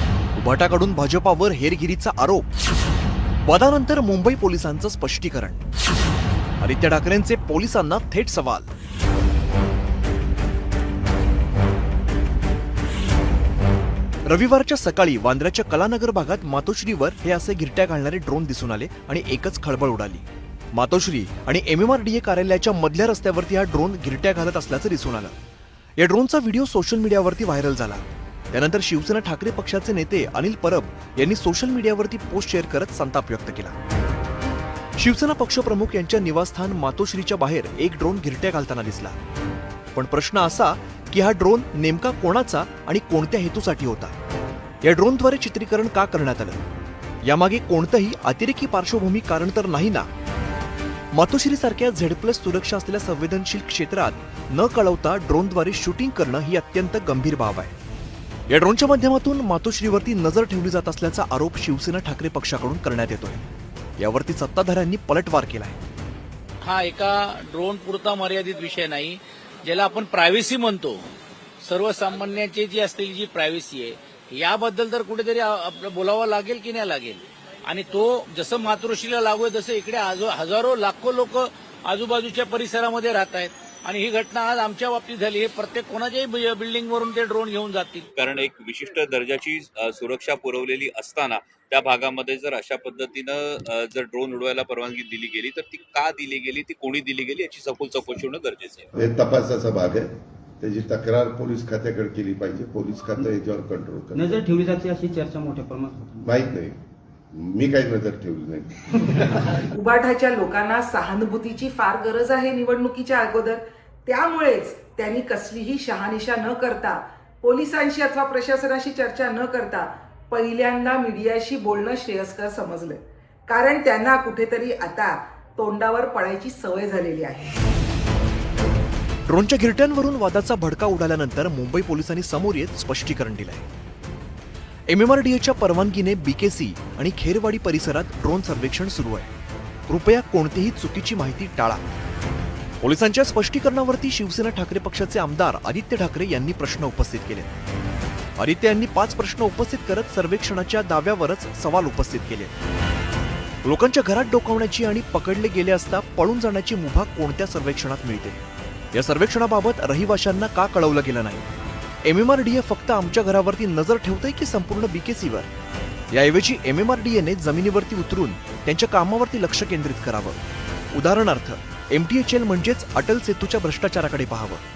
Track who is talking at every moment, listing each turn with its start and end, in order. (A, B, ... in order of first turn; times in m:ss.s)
0:00.4-0:02.4 A
0:03.4-0:05.6 A
0:06.6-0:08.7 A
0:14.3-0:25.4 A
0:26.0-0:33.7 A
0:35.0-0:39.2 A
0:39.9-0:44.1 A
0:44.8-0:46.6 A
0:47.2-0:50.1 A
0:51.1-0:57.7 A
0:58.5-1:03.4 A
1:04.0-1:05.8 A
1:06.6-1:11.0 B
1:11.6-1:28.1 B
1:28.2-1:38.9 C
1:38.9-1:40.1 D
1:40.6-1:44.3 D
1:44.2-1:46.3 E
1:46.2-1:46.8 D
1:47.3-1:49.5 D
1:49.7-2:07.6 F
2:09.3-2:13.6 A
2:14.9-2:19.3 A
2:19.9-2:21.8 A
2:22.8-2:27.5 A
2:28.4-2:32.5 A
2:33.6-2:38.4 A
2:38.9-2:41.4 A
2:42.0-2:45.5 A
2:46.1-2:50.4 A
2:50.9-2:54.6 A